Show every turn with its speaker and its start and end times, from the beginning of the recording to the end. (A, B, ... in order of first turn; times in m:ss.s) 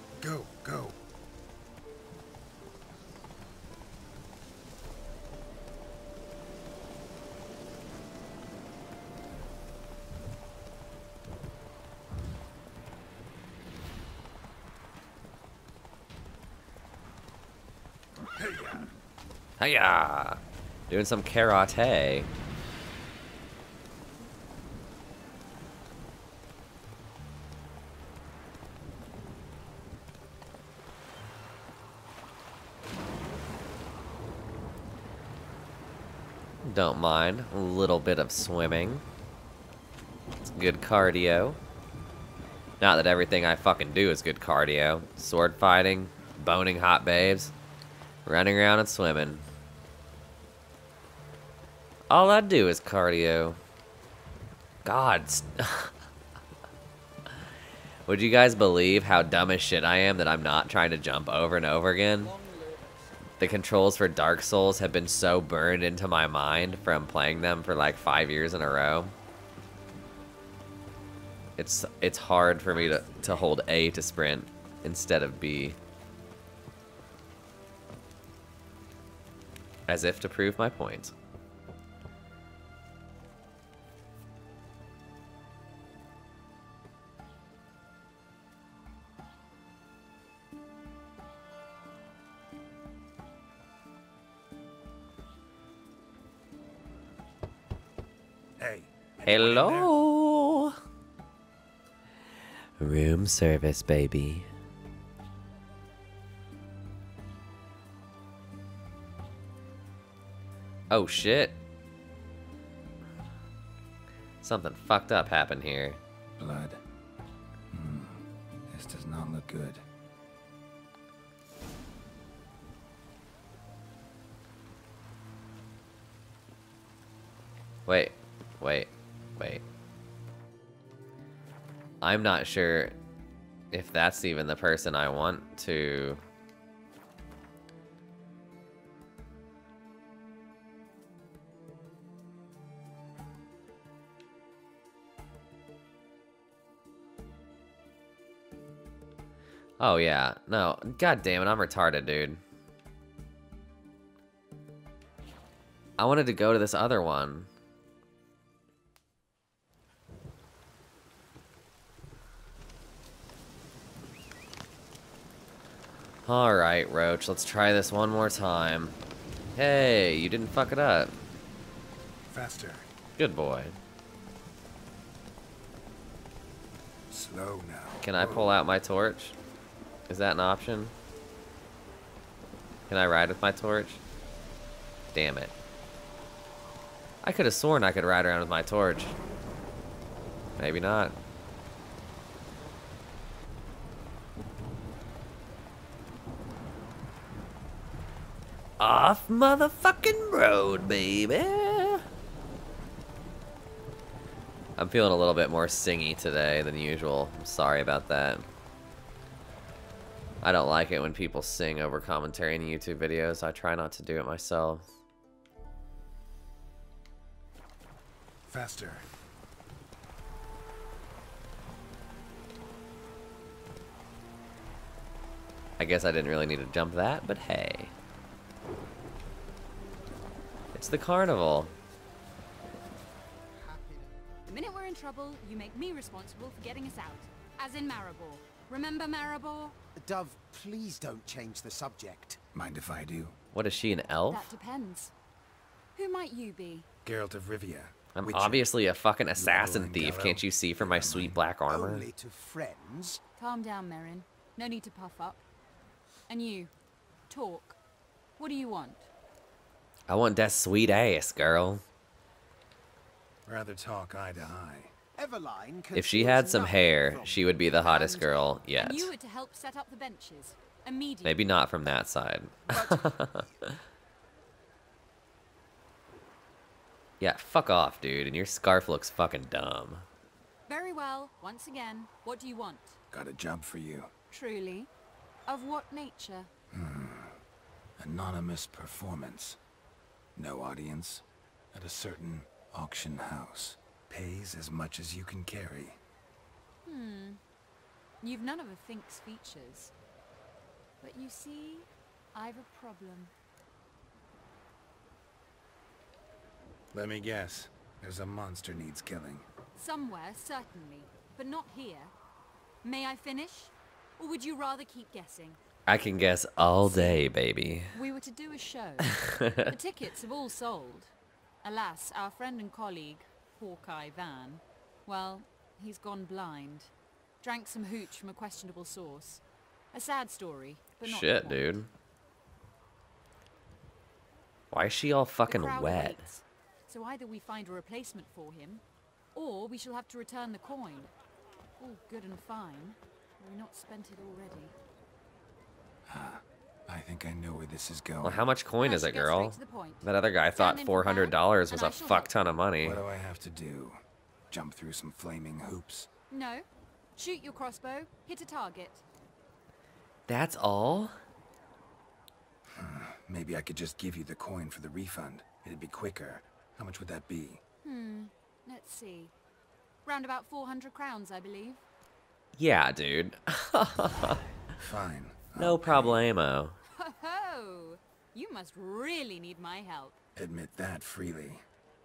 0:00.2-0:01.0 A
0:18.3-0:18.9 A
0:19.6-0:22.3 B
0:36.6-0:39.0 B
0:40.4-0:41.6 B
0:42.8-0:47.5 B
0:48.2-0:49.4 B
0:52.1-0:53.6 B
0:54.8-0:55.9 B
0:58.1-1:02.3 B
1:03.4-1:09.1 B
1:11.6-1:15.8 B
1:19.9-1:21.1 B
1:38.6-1:39.9 A
1:39.2-1:40.8 B
1:42.8-1:44.5 B
1:50.9-1:51.6 B
1:54.4-1:56.0 B
1:56.4-1:56.8 A
1:57.7-1:59.8 A
2:07.9-2:09.6 B
2:12.0-2:12.9 B
2:13.7-2:16.2 B
2:29.8-2:32.4 B
2:36.0-2:37.5 B
2:46.2-2:48.9 B
2:49.6-2:51.1 B
2:52.3-2:52.9 A
2:53.2-2:53.7 B
2:57.1-2:58.5 A
2:58.0-2:59.4 B
3:00.1-3:00.9 B
3:02.9-3:04.0 B
3:05.1-3:05.5 B
3:07.2-3:09.2 B
3:10.6-3:11.2 B
3:18.8-3:22.0 B
3:24.8-3:28.4 B
3:30.4-3:34.8 B
3:38.4-3:39.1 A
3:45.8-3:47.9 B
3:50.7-3:51.7 B
3:54.4-3:59.8 C
4:00.0-4:02.4 D
4:02.5-4:03.4 A
4:03.5-4:04.5 B
4:04.3-4:05.1 C
4:05.9-4:06.9 C
4:07.0-4:08.7 A
4:08.1-4:12.1 B
4:09.4-4:11.4 A
4:11.7-4:13.2 D
4:13.4-4:15.4 C
4:16.3-4:16.7 C
4:17.3-4:17.8 C
4:18.4-4:19.1 C
4:20.1-4:21.8 B
4:23.4-4:24.9 A
4:25.2-4:28.4 D
4:25.9-4:29.1 B
4:28.7-4:31.5 C
4:31.2-4:33.7 B
4:32.7-4:33.1 D
4:37.2-4:40.0 B
4:40.7-4:43.0 C
4:43.1-4:44.1 A
4:44.3-4:44.9 C
4:45.5-4:46.5 C
4:46.7-4:47.4 A
4:48.0-4:49.6 A
4:50.4-4:56.0 A
4:56.8-4:57.4 C
4:58.2-4:59.9 C
5:01.0-5:03.3 C
5:06.9-5:09.5 A
5:09.7-5:12.1 C
5:12.8-5:15.6 C
5:15.9-5:18.0 B
5:16.8-5:17.2 C
5:17.9-5:31.9 C
5:19.2-5:19.7 B
5:31.0-5:31.9 B
5:34.7-5:36.3 B
5:35.4-5:38.8 C
5:39.3-5:41.1 C
5:41.8-5:44.7 C
5:46.1-5:48.5 A
5:48.2-5:53.0 B
5:48.8-5:52.6 C
5:52.8-5:56.1 A
5:56.3-5:59.0 C
6:00.3-6:01.2 B
6:02.7-6:07.6 A
6:07.8-6:09.3 C
6:10.0-6:11.8 C
6:12.5-6:14.4 B
6:14.8-6:16.2 A
6:15.6-6:16.8 B
6:17.0-6:20.2 C
6:20.4-6:21.6 A